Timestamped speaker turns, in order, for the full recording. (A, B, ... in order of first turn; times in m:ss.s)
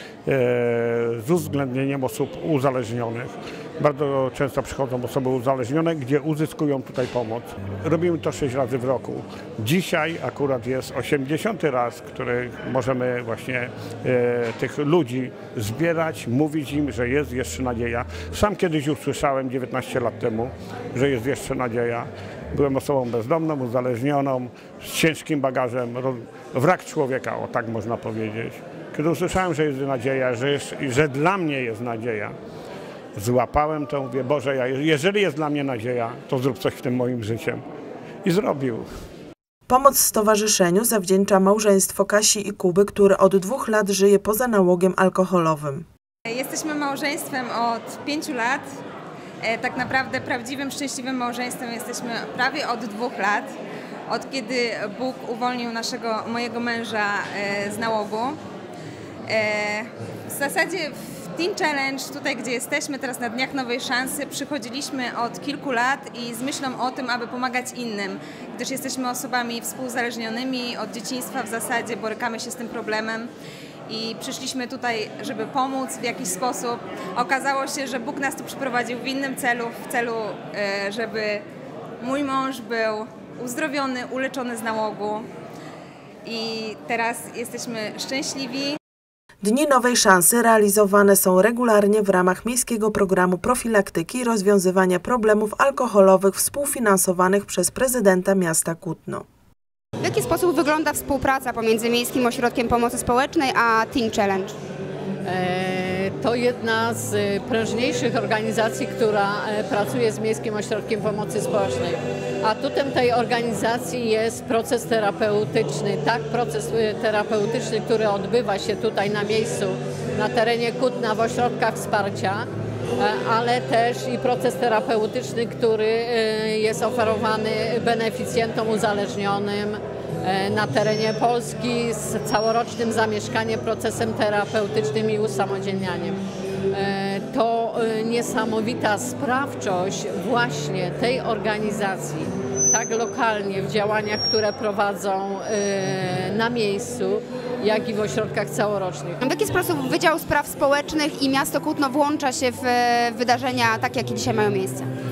0:00.2-0:32.3 A
0:33.2-0:37.6 A
0:38.2-0:38.9 A
0:39.7-0:45.8 B
0:46.3-0:48.6 C
0:49.4-0:53.5 C
0:54.1-0:58.4 C
0:59.3-1:13.3 C
1:13.9-1:21.4 C
1:22.0-1:25.2 C
1:26.2-1:28.8 C
1:29.4-1:39.2 B
1:40.0-1:44.5 D
1:45.2-2:29.2 E
2:29.2-2:34.9 D